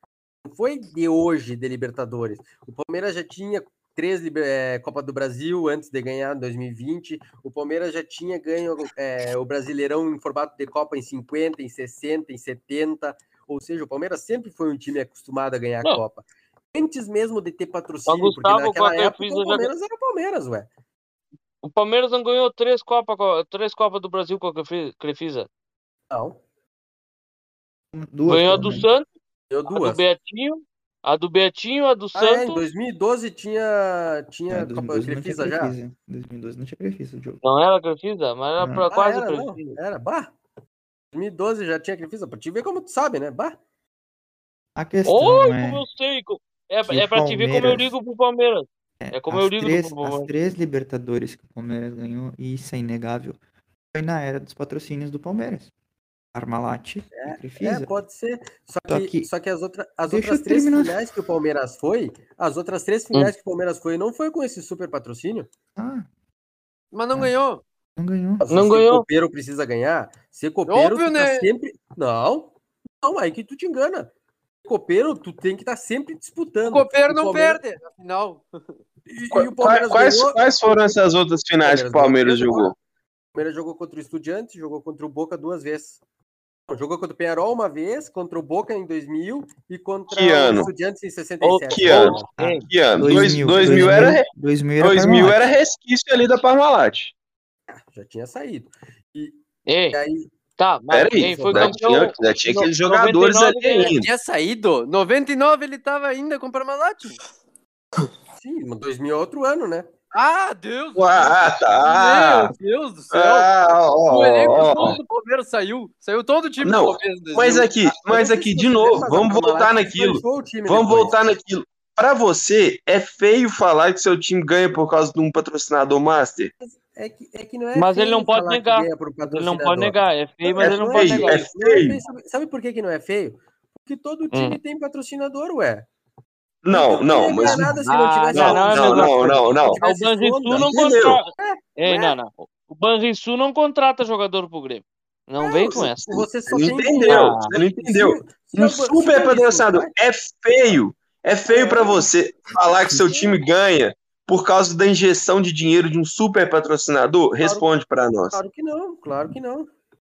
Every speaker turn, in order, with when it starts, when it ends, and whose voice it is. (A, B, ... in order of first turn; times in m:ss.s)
0:00.4-0:20.7 A
0:18.1-0:19.7 B
0:21.6-0:25.5 B
0:26.1-0:26.4 A
0:27.9-0:28.9 C
0:28.3-0:29.0 B
0:29.5-0:30.0 A
0:29.7-0:32.6 B
0:32.1-0:35.7 A
0:34.5-0:37.4 C
0:37.4-0:39.8 B
0:38.6-0:38.8 C
0:38.9-0:40.3 A
0:41.1-0:43.6 A
0:44.8-0:45.8 C
0:45.0-0:50.3 B
0:46.8-0:47.9 C
0:49.0-0:53.4 C
0:53.9-0:55.7 C
0:56.3-0:57.9 C
0:57.2-1:05.5 A
0:58.9-0:59.3 C
1:00.1-1:01.0 C
1:05.8-1:06.1 C
1:06.9-1:07.6 D
1:08.0-1:08.4 C
1:08.4-1:14.1 A
1:08.5-1:09.0 B
1:10.7-1:11.5 D
1:14.6-1:17.6 A
1:16.6-1:18.5 D
1:19.1-1:20.9 A
1:19.3-1:22.7 E
1:21.6-1:22.7 A
1:23.3-1:26.0 A
1:26.7-1:32.3 A
1:30.1-1:30.7 E
1:31.4-1:32.7 B
1:31.7-1:34.3 E
1:32.4-1:35.4 C
1:34.8-1:37.1 E
1:37.7-1:39.4 A
1:39.6-1:40.0 B
1:39.9-1:40.3 A
1:40.6-1:44.0 B
1:40.9-1:44.1 E
1:41.3-1:41.8 A
1:43.9-1:47.2 D
1:48.4-1:49.9 A
1:50.1-1:53.5 D
1:51.0-1:52.5 E
1:53.1-1:55.0 E
1:54.1-1:57.8 D
1:56.6-2:06.5 E
1:57.9-2:01.3 A
2:06.6-2:15.9 A
2:07.7-2:11.5 B
2:10.6-2:12.0 E
2:14.3-2:14.6 B
2:16.6-2:17.7 E
2:16.7-2:22.2 A
2:17.4-2:26.2 B
2:18.3-2:19.8 E
2:20.6-2:21.2 E
2:25.4-2:29.9 A
2:26.5-2:38.4 E
2:27.0-2:27.5 B
2:31.4-2:32.1 A
2:33.0-2:33.3 A
2:37.4-2:37.7 A
2:38.3-2:39.7 A